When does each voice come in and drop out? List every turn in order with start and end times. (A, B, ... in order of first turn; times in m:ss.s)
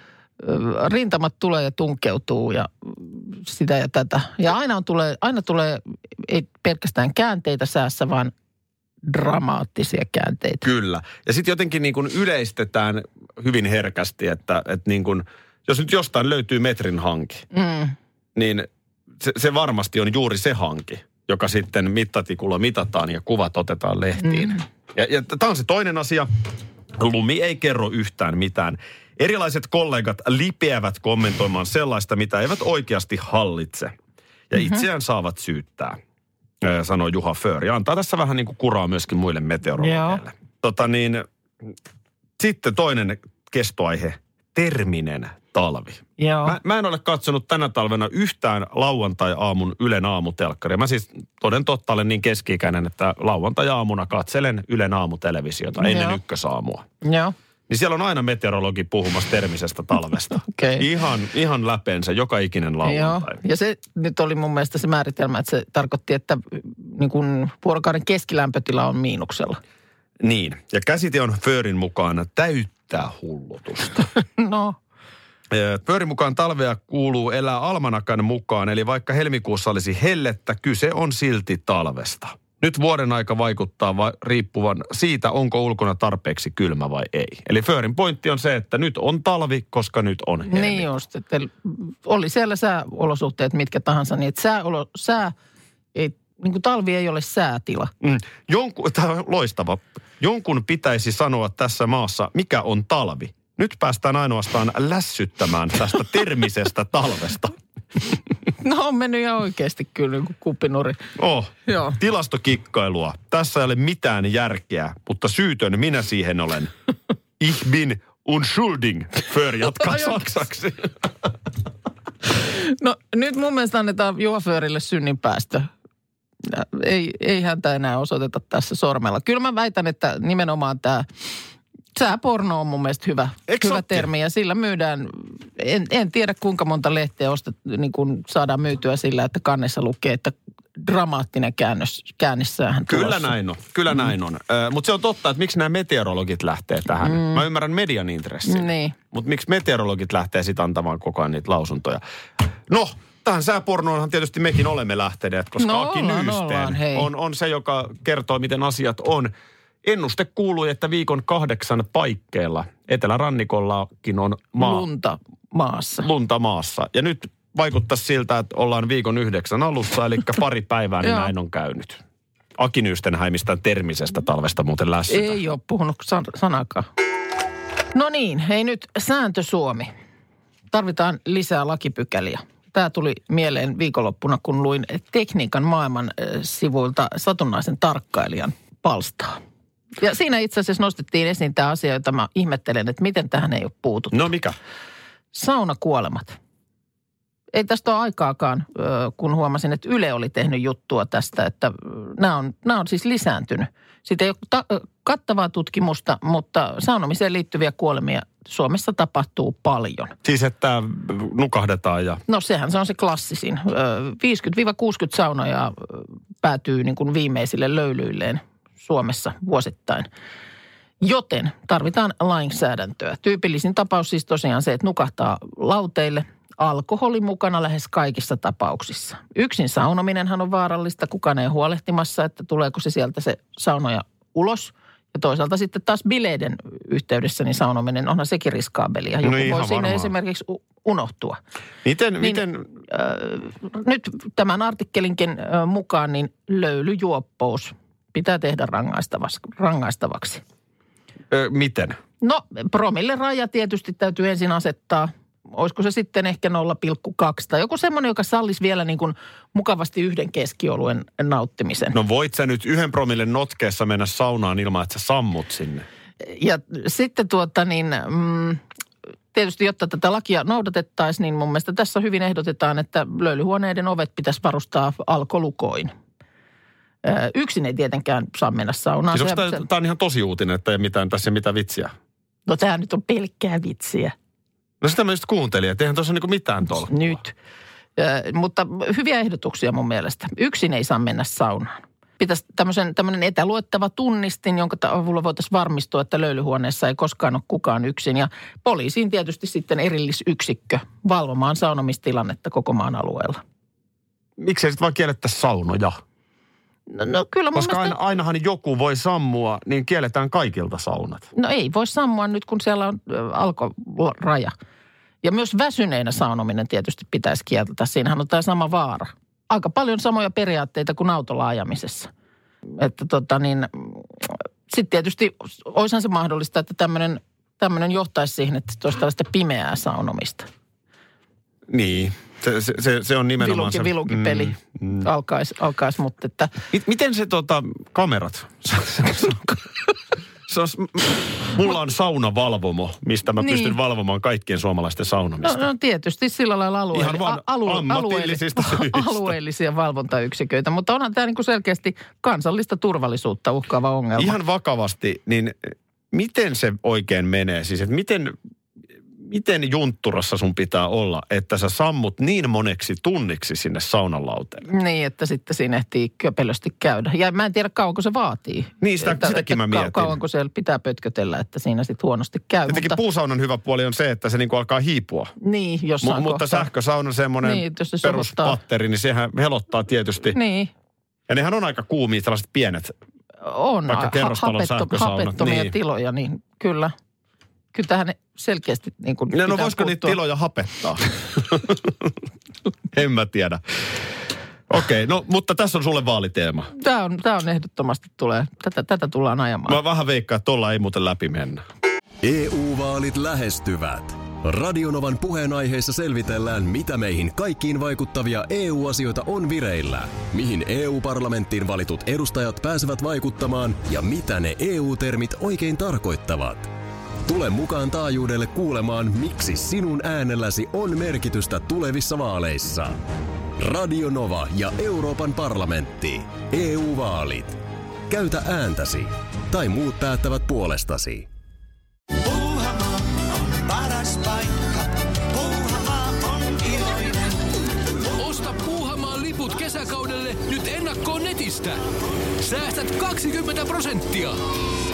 0:00.4-0:08.3 A
0:09.0-0:10.6 A
0:10.6-0:17.4 B
0:17.5-0:18.0 A
0:18.3-0:18.7 B
0:19.2-0:26.3 B
0:27.0-0:33.9 B
0:34.5-0:36.0 B
0:34.6-0:34.8 A
0:36.6-0:41.2 B
0:39.8-0:40.2 A
0:42.4-0:56.8 B
0:46.2-0:46.6 A
0:55.8-0:56.2 A
0:57.0-0:57.3 A
0:57.7-1:03.4 B
1:00.4-1:00.8 A
1:02.8-1:09.6 A
1:10.2-1:14.1 B
1:14.4-1:14.8 A
1:15.5-1:30.9 B
1:30.5-1:35.3 A
1:35.9-1:37.9 A
1:38.0-1:47.6 B
1:48.6-1:51.0 A
1:51.2-1:56.7 B
1:51.7-1:52.0 A
1:57.4-2:00.9 B
1:59.8-2:00.2 A
2:02.4-2:05.7 A
2:06.4-2:11.1 A
2:11.9-2:23.3 A
2:13.5-2:14.1 B
2:22.9-2:32.0 B
2:27.0-2:27.4 A
2:28.4-2:29.0 A
2:32.7-2:39.3 B
2:35.6-2:37.1 A
2:39.8-2:44.8 B
2:44.6-2:46.1 A
2:46.0-2:52.0 B
2:51.0-2:51.3 A
2:52.6-2:55.4 B
2:55.1-2:56.9 A
2:57.9-2:59.9 A
3:00.7-3:09.4 A
3:10.0-3:14.2 A
3:14.1-3:14.6 B
3:15.3-3:16.4 A
3:17.5-3:30.1 A
3:30.2-3:32.2 B
3:32.3-3:40.1 A
3:41.0-4:01.4 A
3:59.2-4:00.1 B
4:01.8-4:02.7 B
4:02.2-4:10.4 A
4:11.3-4:12.0 B
4:12.2-4:22.0 A
4:21.9-4:25.8 B
4:26.2-4:28.6 A
4:29.3-4:35.9 A
4:37.0-4:39.6 A
4:39.1-4:41.9 B
4:42.5-4:44.1 A
4:44.8-4:47.2 B
4:46.9-4:47.3 A
4:48.0-5:03.4 A
5:04.4-5:06.0 B
5:06.9-5:08.0 A
5:07.5-5:11.3 B
5:11.3-5:14.5 A
5:15.2-5:22.1 A
5:22.8-5:30.5 A
5:31.7-5:35.0 B
5:33.4-5:36.6 A
5:36.7-5:39.6 B
5:40.5-5:45.6 B
5:43.4-5:43.8 A
5:45.4-5:54.4 A
5:46.9-5:49.3 B
5:54.2-5:58.3 B
5:59.2-6:04.6 B
6:04.7-6:13.0 A
6:08.8-6:10.2 B
6:12.7-6:15.3 B
6:15.4-6:16.7 A
6:16.0-6:20.4 B
6:17.4-6:18.6 A
6:20.3-6:20.7 A
6:21.3-6:22.9 B
6:23.4-6:26.9 A
6:23.9-6:25.7 B
6:27.7-6:30.2 A
6:29.3-6:32.1 B
6:32.9-6:34.0 B
6:34.7-6:36.7 B
6:36.7-6:39.8 A
6:39.7-6:41.6 B
6:42.2-6:56.7 C
6:57.2-7:03.0 C
7:03.6-7:11.3 C
7:12.2-7:17.5 D
7:18.2-7:21.8 E
7:22.4-7:24.4 E